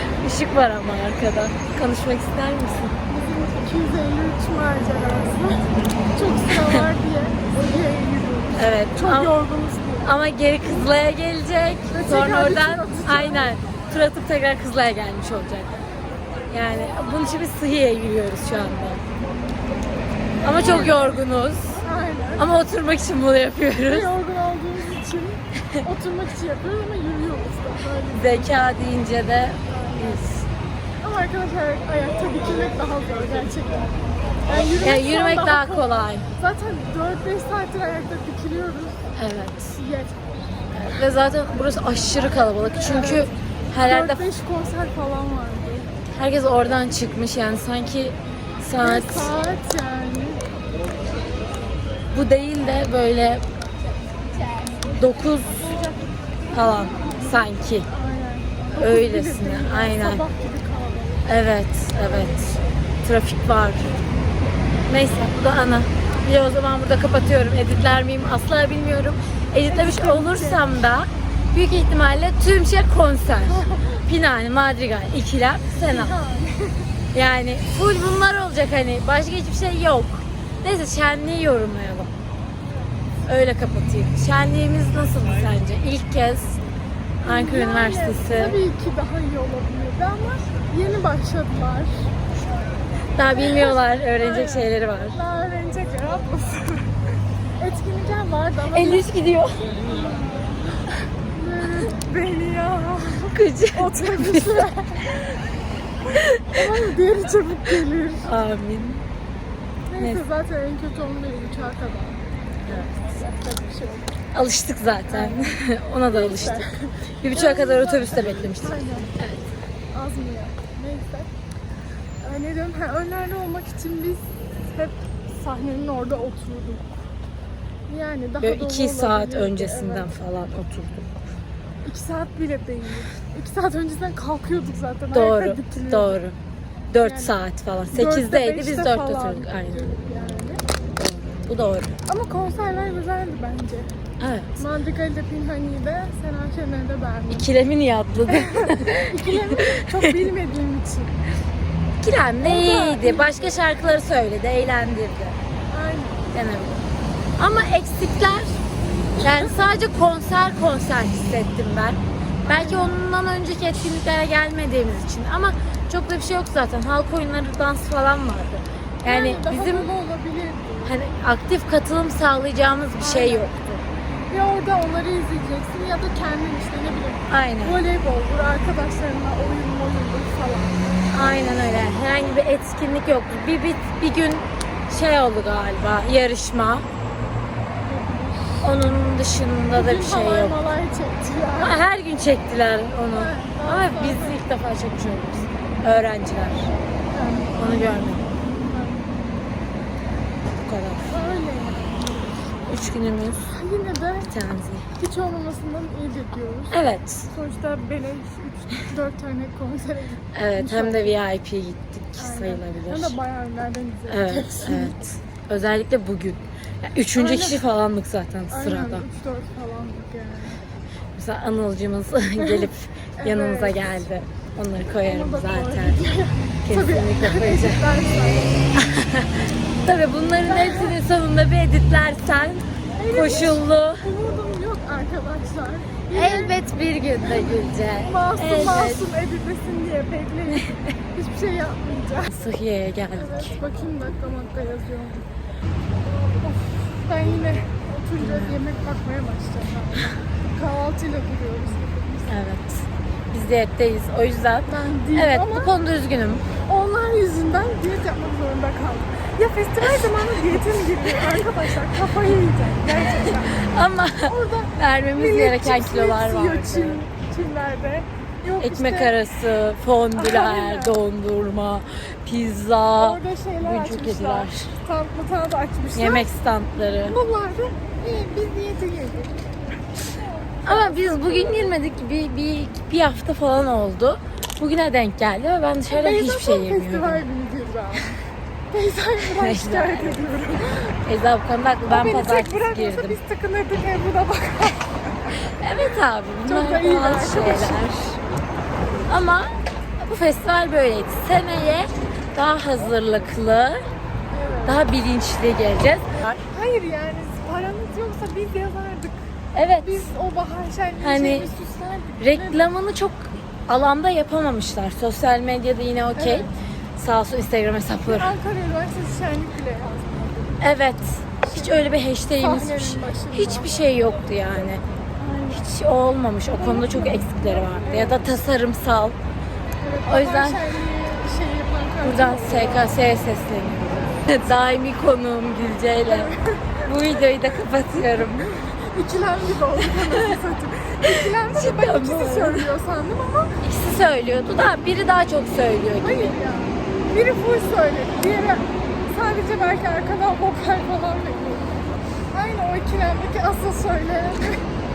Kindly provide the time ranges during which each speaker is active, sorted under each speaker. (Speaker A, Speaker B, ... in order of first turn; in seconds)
Speaker A: 0.2-2.9, 8.6-9.3, 10.0-15.7, 16.5-19.0, 20.4-21.8, 22.4-24.1, 28.1-30.4, 34.8-36.2, 39.1-39.7, 40.7-44.2, 46.1-49.3, 52.1-53.4, 55.0-55.7, 56.5-57.9, 58.7-60.2, 61.2-63.9, 64.9-76.1, 77.1-82.1, 83.3-86.6, 87.2-88.6, 93.2-95.2, 98.7-99.8, 103.3-104.7, 106.1-106.6, 108.2-109.0, 114.3-116.7, 117.2-119.4, 128.4-131.2, 135.1-136.3, 136.9-139.9, 141.5-141.9, 144.2-144.5, 147.3-150.1, 152.0-155.4, 156.3-156.8, 157.4-158.6, 159.2-169.9, 170.8-173.8, 177.3-177.8, 181.1-186.8, 188.6-190.6, 191.6-196.7, 197.6-198.2, 200.6-201.2, 202.7-203.5, 204.3-204.8, 206.7-207.2, 210.3-213.2, 214.1-219.1, 221.2-226.0, 226.7-227.8, 228.8-234.0, 236.1-239.0, 242.3-243.6, 248.2-248.6, 252.3-256.4, 263.3-267.0, 268.6-274.7, 275.9-277.1, 280.6-287.2, 289.2-290.2, 291.0-293.2, 295.6-298.2, 299.1-303.9, 304.6-306.4, 309.5-310.1, 311.0-311.5, 312.2-318.3, 320.6-324.8, 325.5-329.2, 330.1-330.6, 332.0-336.3, 336.8-338.5, 341.5-342.7, 343.6-346.3
Speaker B: 3.1-10.1, 11.9-13.6, 20.4-21.0, 21.8-22.4, 23.9-28.6, 29.7-30.2, 31.0-33.9, 34.5-39.0, 39.8-40.4, 42.8-45.9, 48.8-50.4, 55.6-56.0, 56.6-61.3, 62.0-62.7, 69.7-70.6, 73.5-74.0, 75.7-76.8, 87.2-92.1, 93.3-96.9, 97.6-99.0, 99.8-100.6, 101.3-105.0, 106.5-108.2, 109.9-114.1, 115.1-115.5, 116.1-119.1, 119.9-121.3, 122.2-124.2, 124.7-126.8, 127.9-130.1, 131.8-136.2, 137.0-137.4, 137.9-140.6, 142.1-143.9, 144.6-147.5, 148.3-151.1, 152.4-153.6, 155.7-156.3, 159.2-159.6, 162.4-163.0, 169.0-170.9, 173.0-173.5, 174.3-180.8, 187.8-188.7, 189.7-191.8, 193.1-194.4, 197.1-198.0, 198.7-199.0, 201.1-202.6, 203.5-204.3, 205.0-206.8, 207.3-211.2, 212.2-215.0, 217.1-217.6, 218.5-220.6, 222.4-224.0, 225.0-228.6, 230.5-230.9, 232.9-236.6, 237.2-242.3, 243.2-245.3, 246.4-252.3, 254.7-255.7, 256.7-263.6, 264.2-269.1, 270.1-270.9, 273.0-276.3, 277.1-279.3, 280.5-281.8, 285.9-288.1, 288.7-290.9, 291.9-294.9, 296.5-297.8, 304.3-304.8, 306.5-309.1, 309.8-312.7, 316.1-316.5, 318.1-320.6, 321.4-323.8, 325.2-325.6, 326.5-328.3, 329.8-332.9, 336.1-336.9, 338.5-343.5, 346.0-351.7, 352.3-354.6